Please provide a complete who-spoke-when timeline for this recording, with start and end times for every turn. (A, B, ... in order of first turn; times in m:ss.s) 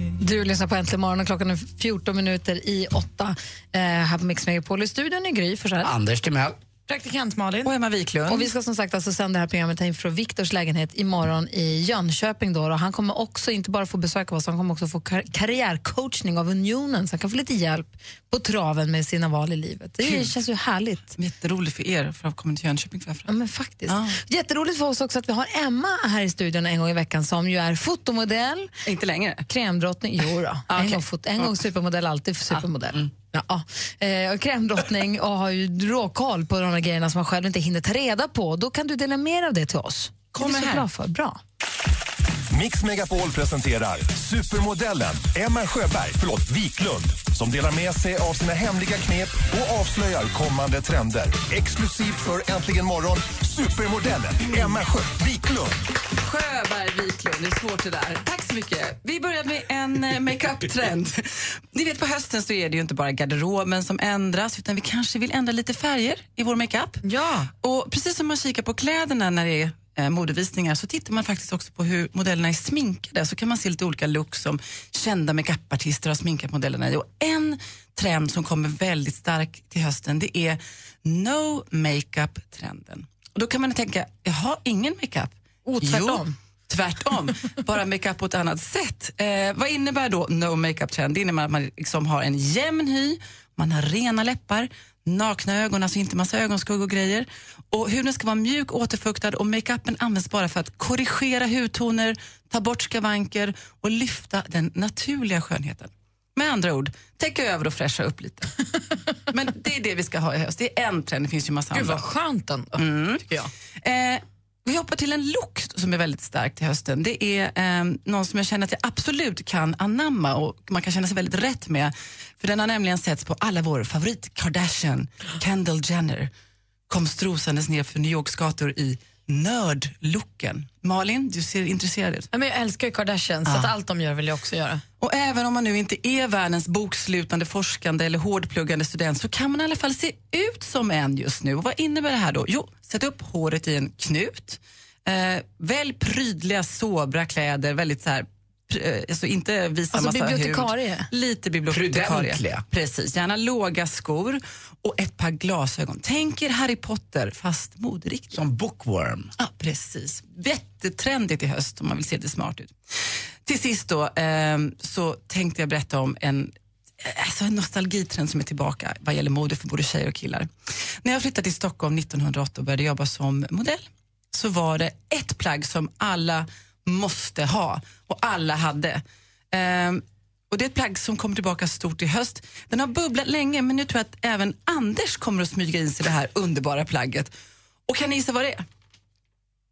0:00.2-0:05.9 A
0:05.8-0:06.6 B
0:06.9-0:07.7 C
0:07.6-0:08.5 D
0:08.3-0:21.1 A
0:20.0-0:20.3 D
0:21.2-0:23.3 D
0:23.3-0:28.7 A
0:23.9-0:24.2 D
0:28.8-0:29.4 D
0:29.5-0:41.4 A
0:30.7-0:31.6 D
0:40.3-0:40.9 D
0:42.5-0:55.8 E
0:54.5-0:54.8 D
0:56.1-1:07.0 D
1:07.0-1:07.5 C
1:07.5-1:48.5 D
1:25.7-1:26.3 A
1:49.3-1:52.0 D
1:51.7-1:53.5 C
1:52.8-1:53.3 D
1:53.8-2:06.3 D
2:06.9-2:12.3 D
2:12.3-2:14.8 C
2:13.5-2:13.7 D
2:15.0-2:38.4 D
2:29.9-2:31.1 A
2:31.7-2:32.6 B
2:38.3-2:39.3 B
2:39.4-2:42.8 D
2:43.4-2:50.5 D
2:51.0-3:07.3 D
3:07.9-3:08.6 D